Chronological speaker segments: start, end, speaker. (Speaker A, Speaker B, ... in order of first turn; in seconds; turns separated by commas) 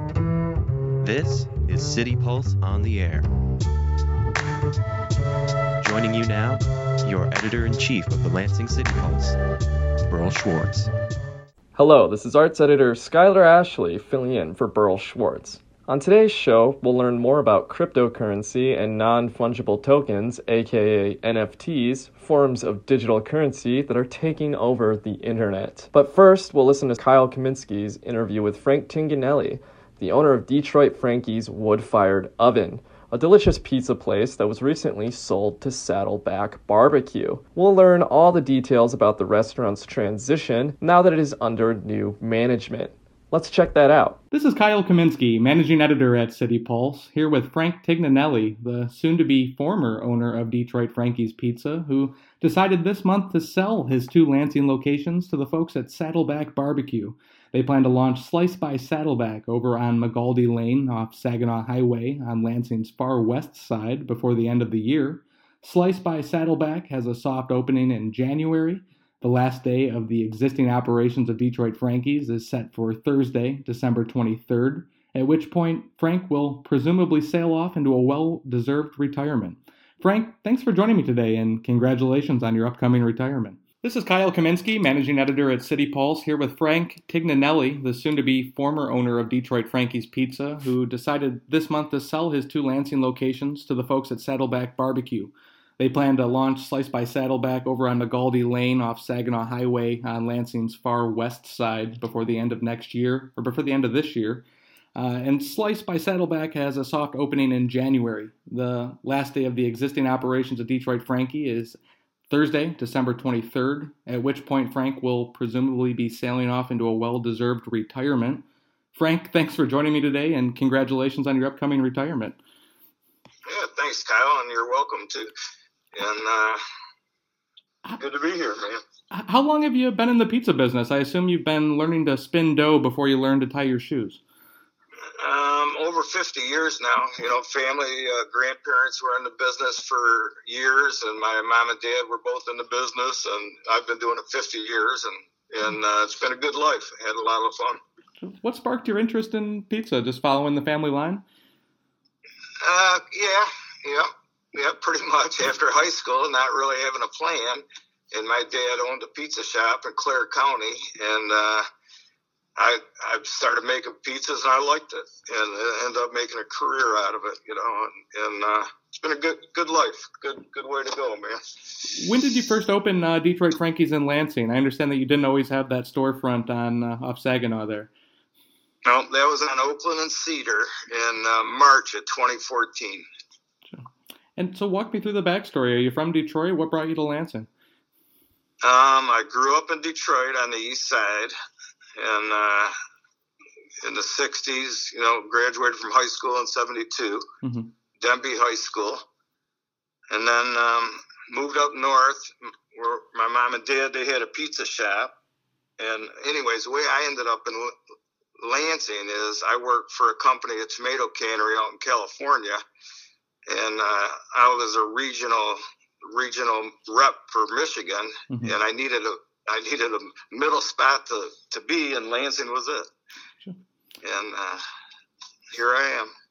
Speaker A: 1.0-3.3, Speaker A: 5.8-9.4, Speaker A: 10.1-10.9, Speaker B: 11.7-44.2, Speaker C: 44.3-104.4, Speaker C: 104.9-111.8, Speaker C: 112.3-118.4, Speaker C: 118.9-122.4, Speaker D: 123.5-125.3, Speaker D: 125.9-126.6, Speaker D: 128.0-128.8, Speaker C: 129.1-134.2, Speaker D: 135.2-147.8, Speaker C: 148.2-151.2, Speaker D: 152.6-161.6, Speaker D: 162.6-171.4, Speaker C: 171.9-177.9, Speaker D: 178.8-183.0, Speaker C: 183.7-187.5, Speaker D: 188.6-191.3, Speaker D: 192.0-192.7, Speaker D: 193.8-197.2, Speaker C: 197.4-197.7, Speaker D: 198.0-199.0, Speaker D: 200.1-205.1, Speaker D: 205.8-207.7, Speaker D: 208.4-212.6, Speaker D: 213.5-222.9, Speaker C: 218.3-218.6, Speaker D: 224.0-224.6, Speaker D: 225.5-226.1